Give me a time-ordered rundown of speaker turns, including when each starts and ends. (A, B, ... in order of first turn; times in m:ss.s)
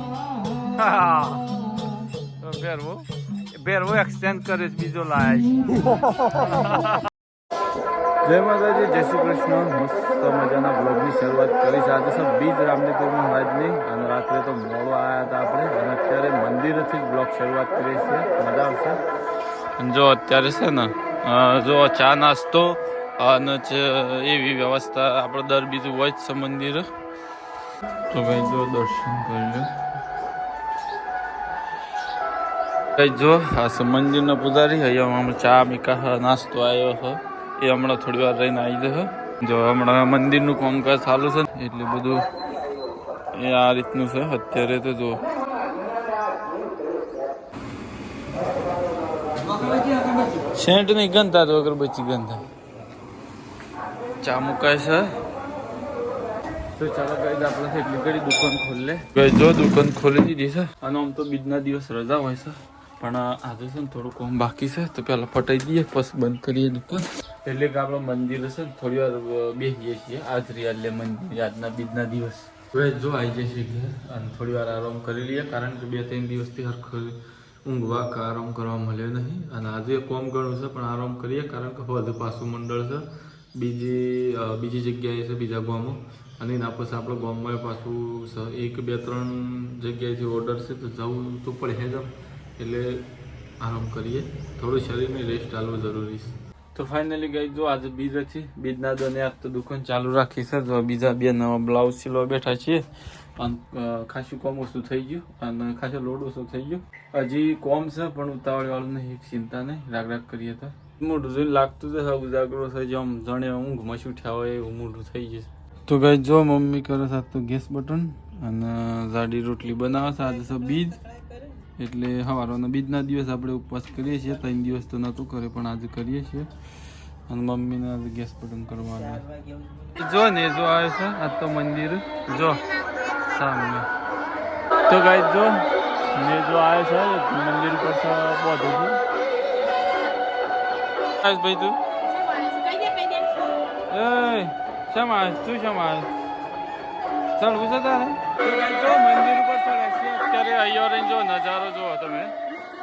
0:00.8-0:01.4 A
0:02.4-0:05.6 A
0:06.4-0:07.0 A
0:08.2-0:19.0 A
0:19.8-0:26.9 A
0:28.1-0:29.7 A
0:33.0-0:42.3 A
0:43.3-0:45.2 A
0:50.4-0:52.4 A
0:54.2-0:55.2 A
0:56.8-1:33.1 A
1:33.6-1:42.8 A
1:43.4-2:01.0 A
2:01.8-2:06.5 A
2:07.3-2:09.2 A
2:09.9-2:13.9 A
2:14.9-2:19.0 A
2:21.2-2:21.8 A
2:22.4-2:23.3 A
2:23.9-2:26.1 A
2:27.4-2:32.3 A